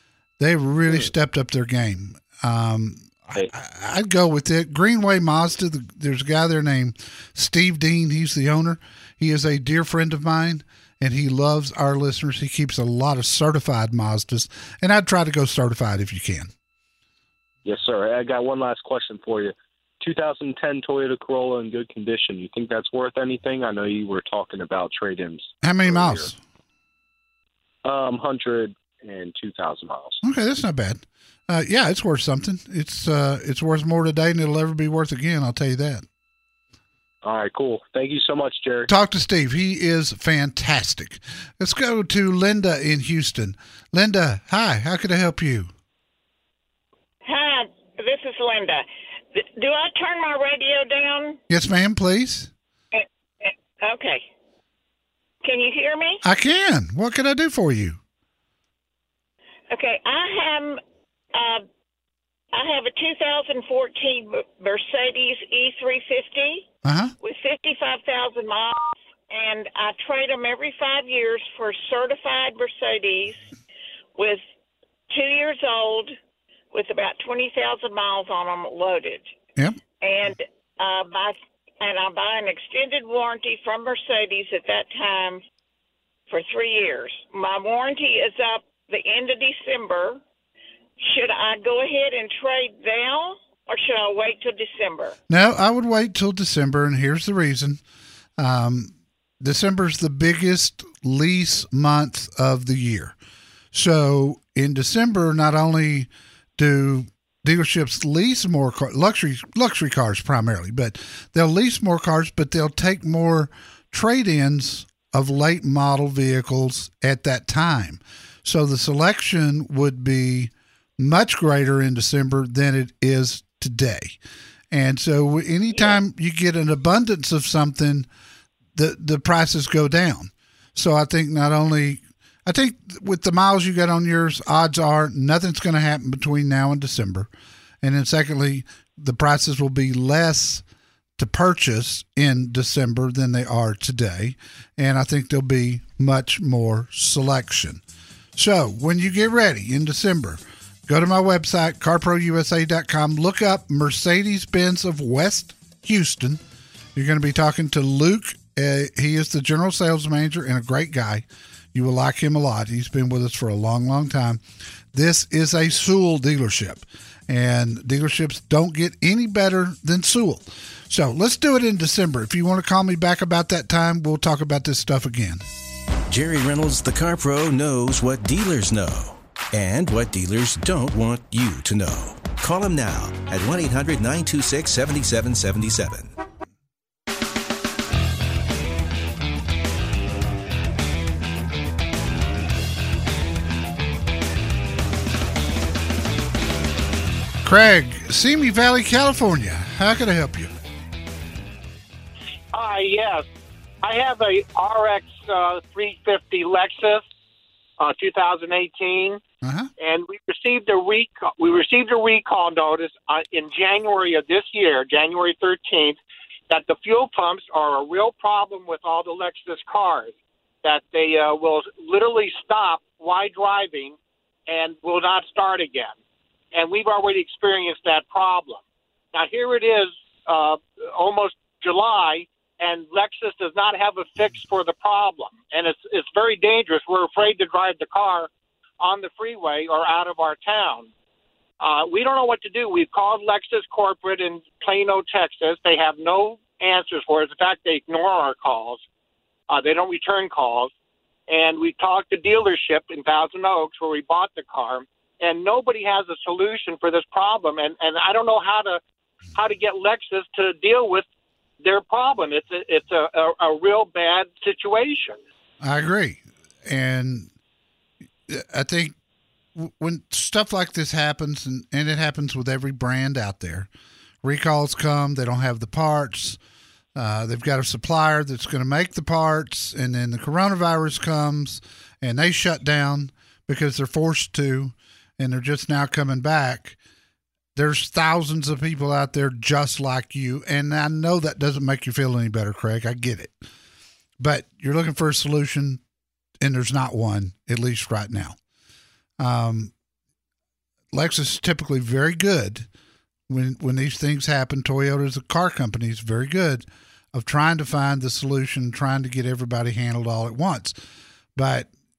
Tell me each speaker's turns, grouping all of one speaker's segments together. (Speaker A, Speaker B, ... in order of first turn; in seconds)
Speaker A: 0.4-16.5, 25.6-26.4, 30.2-36.1, 38.9-45.7, 51.5-52.5, 56.2-58.0, 66.8-67.1, 95.3-97.8, 98.4-103.2, 103.7-124.2, 124.7-128.1, 128.8-137.3, 137.8-140.6, 141.2-147.8, 148.4-156.4, 156.9-164.4, 164.9-175.4, 197.4-200.5, 209.4-209.7, 265.6-267.3, 268.3-269.0, 269.6-273.7, 274.2-276.4, 276.9-286.8, 287.6-293.4, 294.2-295.8, 296.4-298.4, 299.2-299.7, 300.9-302.7, 303.3-310.8, 311.4-311.7
Speaker B: 17.6-26.3, 27.9-30.2, 37.2-38.9
Speaker C: 47.2-51.4, 52.9-54.2, 55.4-56.2, 59.7-60.8, 61.3-61.7, 62.5-66.7, 67.2-73.4, 74.2-74.4, 75.1-76.2, 76.7-79.3, 80.0-85.4, 86.3-90.2, 91.0-95.2
Speaker D: 176.1-186.1
Speaker E: 202.5-203.3, 203.8-207.0, 207.8-209.2, 209.8-224.0, 224.5-226.0, 226.5-228.6, 229.1-238.3, 238.8-240.9, 241.6-248.8, 249.5-250.7, 251.3-258.8, 259.4-261.1, 261.6-265.2